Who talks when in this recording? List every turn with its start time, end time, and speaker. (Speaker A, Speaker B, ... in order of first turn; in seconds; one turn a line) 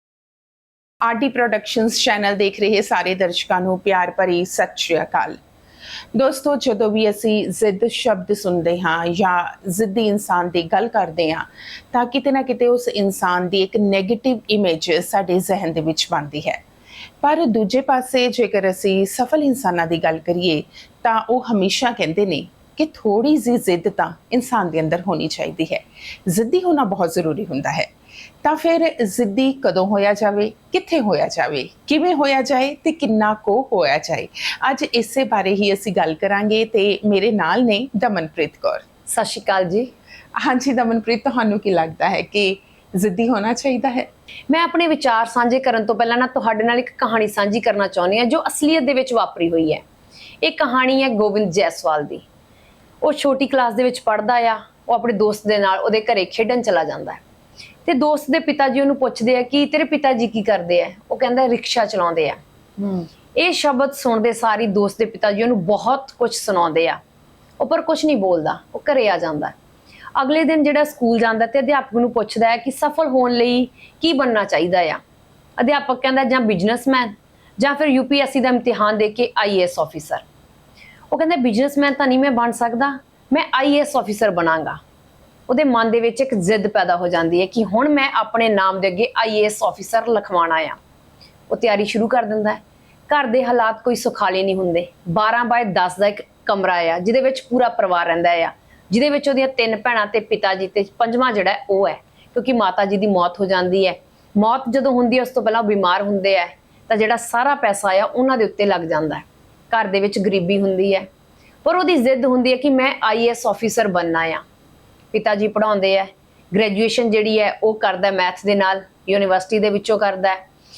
Speaker A: 1.0-5.4
Speaker A: 6.1-16.6
Speaker A: 17.2-27.9
Speaker A: 28.4-38.8
Speaker B: 39.1-39.9
Speaker A: 40.4-44.1
Speaker B: 44.5-49.8
Speaker B: 50.4-52.2
Speaker B: 53.0-57.2
Speaker B: 57.8-62.4
Speaker A: 62.8-63.0
Speaker B: 63.3-67.0
Speaker B: 67.6-69.5
Speaker B: 70.1-75.0
Speaker B: 75.6-80.2
Speaker B: 81.1-84.8
Speaker B: 85.5-90.8
Speaker B: 91.5-111.1
Speaker B: 111.6-114.4
Speaker B: 115.1-120.4